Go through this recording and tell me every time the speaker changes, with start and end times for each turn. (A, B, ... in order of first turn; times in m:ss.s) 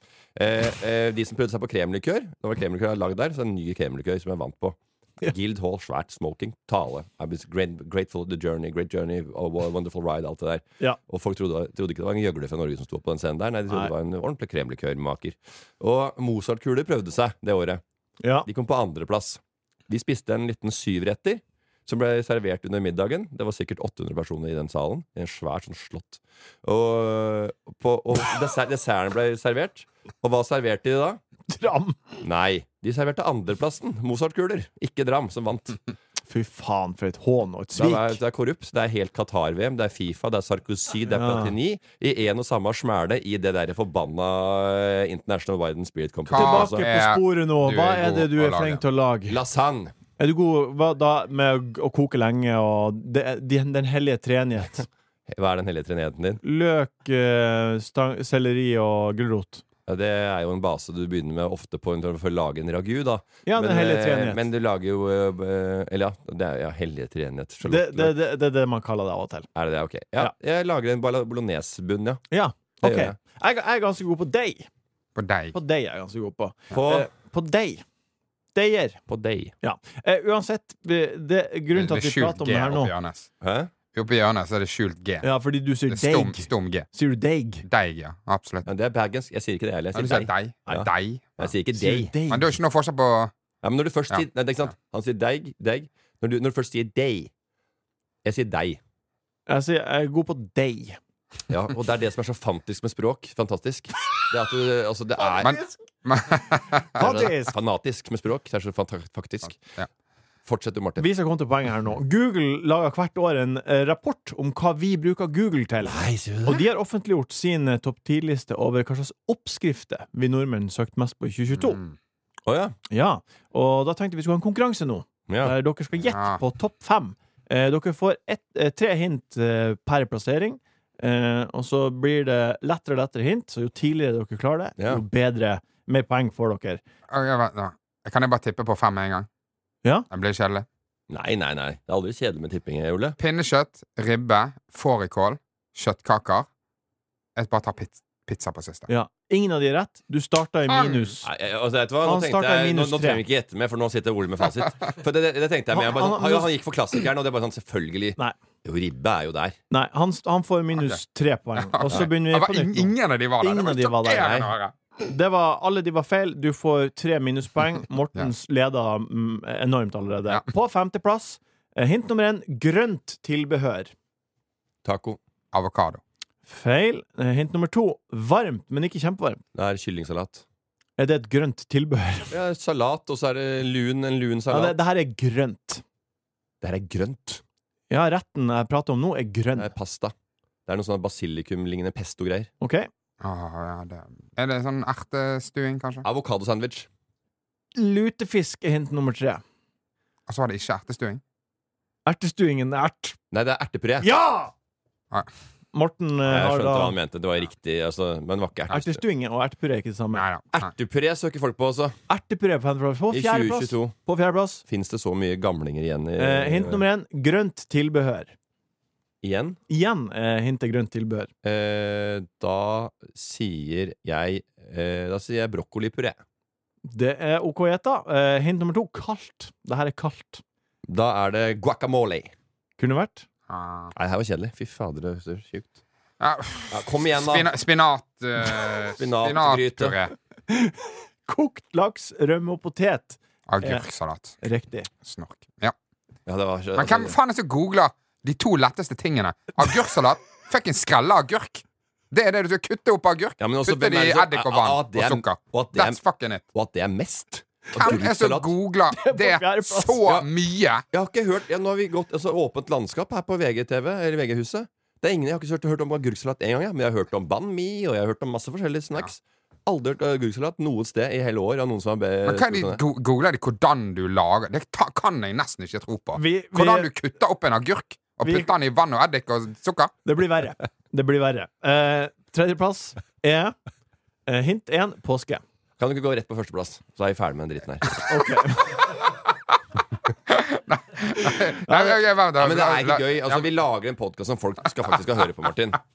0:00.4-0:17.8 A
0:18.2-0:18.5 B
0:18.5-0:31.2 A
0:31.5-0:32.0 B
0:32.2-0:35.8 A
0:36.3-0:38.2 B
0:37.8-0:46.8 A
0:41.1-0:41.6 B
0:46.3-0:48.8 C
0:46.3-0:49.4 B
0:49.3-0:49.9 A
0:50.2-0:54.9 B
0:55.3-0:56.4 A
0:56.4-0:59.6 B
0:59.9-1:08.2 A
1:03.5-1:04.4 B
1:07.6-1:09.5 B
1:09.6-1:12.2 A
1:12.3-1:14.7 B
1:12.8-1:13.2 A
1:15.2-1:15.6 C
1:15.5-1:17.8 B
1:16.7-1:17.1 A
1:18.6-1:19.0 B
1:19.1-1:19.5 A
1:19.6-1:22.9 B
1:21.7-1:23.3 C
1:23.4-1:23.7 A
1:23.9-1:26.9 C
1:25.2-1:27.6 B
1:27.7-1:28.7 C
1:28.6-1:32.1 A
1:29.9-1:31.4 C
1:31.7-1:32.5 B
1:32.3-1:33.3 C
1:33.6-1:37.3 A
1:38.2-1:38.8 A
1:39.5-1:41.0 B
1:41.5-1:45.6 A
1:45.4-1:47.3 C
1:47.0-1:47.6 B
1:47.0-1:49.7 A
1:50.4-1:51.1 A
1:51.0-2:01.8 B
1:55.9-1:56.7 A
2:01.6-2:02.0 C
2:02.5-2:02.8 A
2:02.9-2:16.8 B
2:05.3-2:05.5 A
2:06.1-2:06.4 C
2:17.1-2:19.3 C
2:20.1-2:20.7 C
2:21.1-2:23.2 A
2:23.2-2:26.5 C
2:27.4-2:28.9 C
2:28.9-2:31.2 B
2:30.7-2:31.1 C
2:31.2-2:39.6 A
2:32.0-2:33.2 B
2:35.7-2:36.5 B
2:39.7-2:44.5 B
2:41.7-2:44.7 C
2:45.1-2:53.9 B
2:54.8-2:55.2 A
2:55.5-2:56.0 C
2:56.5-2:59.4 B
2:59.6-3:00.4 A
3:01.0-3:02.4 B
3:02.3-3:04.8 A
3:04.5-3:05.8 B
3:06.6-3:07.4 A
3:07.9-3:09.7 B
3:09.6-3:10.1 A
3:10.7-3:12.5 A
3:12.6-3:12.9 B
3:13.2-3:16.1 C
3:16.0-3:16.9 A
3:17.8-3:19.4 B
3:20.3-3:21.2 C
3:22.1-3:23.2 B
3:23.3-3:24.1 A
3:24.0-3:24.5 B
3:25.7-3:27.0 B
3:26.2-3:29.0 A
3:28.7-3:30.3 B
3:30.1-3:30.7 C
3:30.5-3:32.0 A
3:32.1-3:34.6 B
3:33.1-3:34.0 A
3:34.7-3:36.8 A
3:36.2-3:38.3 B
3:39.2-3:39.6 A
3:39.7-3:41.3 B
3:41.4-3:46.2 A
3:46.9-3:50.4 B
3:50.9-3:52.3 A
3:52.8-3:53.3 B
3:53.5-3:53.9 C
3:54.0-3:55.8 A
3:56.2-4:00.1 C
3:56.7-3:57.5 A
3:59.0-4:00.0 A
4:00.5-4:03.8 B
4:03.5-4:04.4 C
4:04.4-4:04.9 B
4:05.0-4:05.8 C
4:06.3-4:07.2 A
4:06.8-4:16.4 C
4:13.4-4:16.0 A
4:16.5-4:18.5 A
4:17.7-4:20.8 C
4:18.9-4:20.0 B
4:20.9-4:32.8 A
4:32.3-4:39.9 C
4:36.2-4:36.9 B
4:38.2-4:38.5 B
4:40.0-4:43.6 B
4:44.3-4:45.4 B
4:45.8-4:48.0 A
4:48.1-4:48.8 B
4:50.3-4:53.4 C
4:51.7-4:55.8 A